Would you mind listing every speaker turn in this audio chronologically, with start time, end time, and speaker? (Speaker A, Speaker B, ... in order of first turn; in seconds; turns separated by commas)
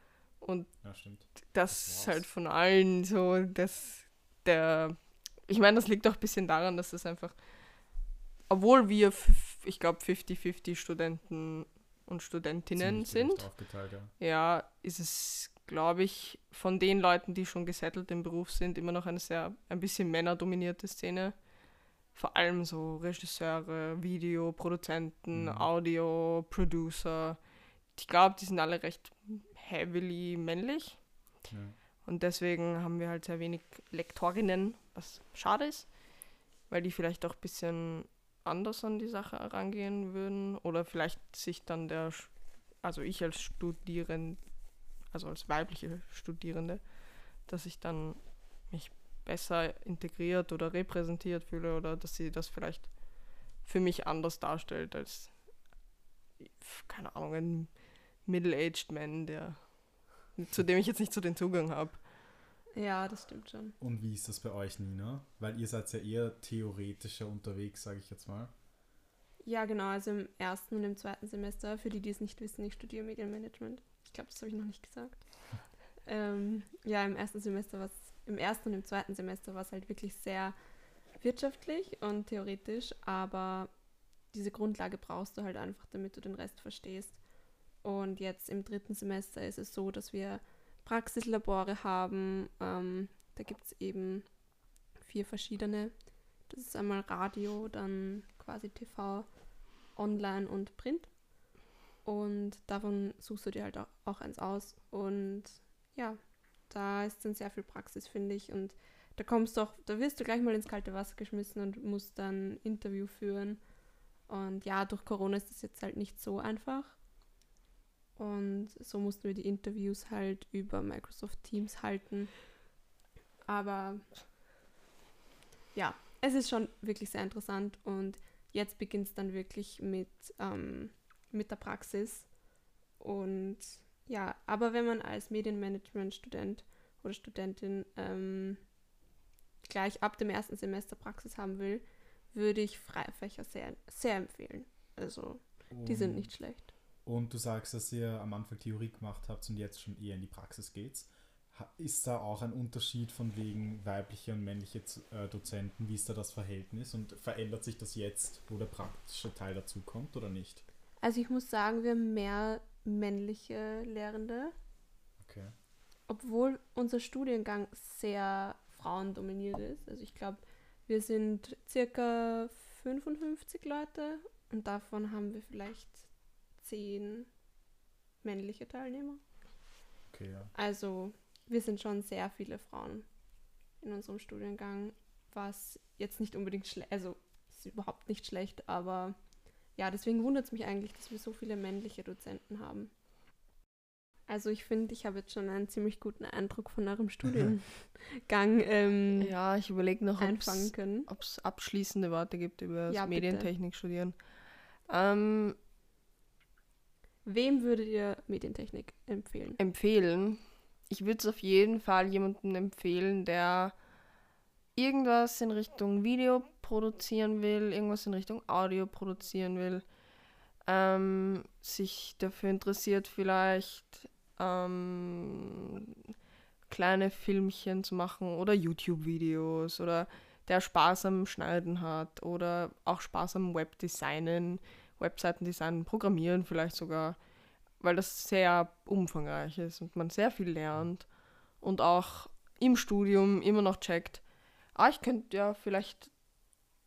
Speaker A: 0.4-31.3, Speaker B: 0.8-2.3, Speaker B: 12.8-14.1, Speaker B: 25.3-25.7, Speaker B: 31.5-31.8, Speaker A: 32.0-55.9, Speaker A: 56.4-62.0, Speaker C: 62.7-63.8, Speaker B: 63.8-68.5, Speaker C: 69.4-80.6, Speaker C: 81.1-101.2, Speaker C: 102.0-113.7, Speaker C: 114.2-117.0, Speaker C: 118.2-122.7, Speaker C: 123.5-124.2, Speaker C: 125.7-132.3, Speaker C: 133.0-138.7, Speaker C: 139.6-146.7, Speaker B: 145.7-160.6, Speaker C: 161.0-164.5, Speaker B: 165.2-165.5, Speaker C: 166.1-177.3, Speaker C: 178.2-179.2, Speaker B: 180.1-180.5, Speaker C: 180.5-183.1, Speaker C: 183.8-192.9, Speaker C: 194.3-199.4, Speaker A: 199.2-205.6, Speaker C: 200.2-201.1, Speaker C: 202.9-203.5, Speaker C: 207.2-209.6, Speaker A: 209.6-214.2, Speaker A: 214.8-225.6, Speaker A: 226.7-246.2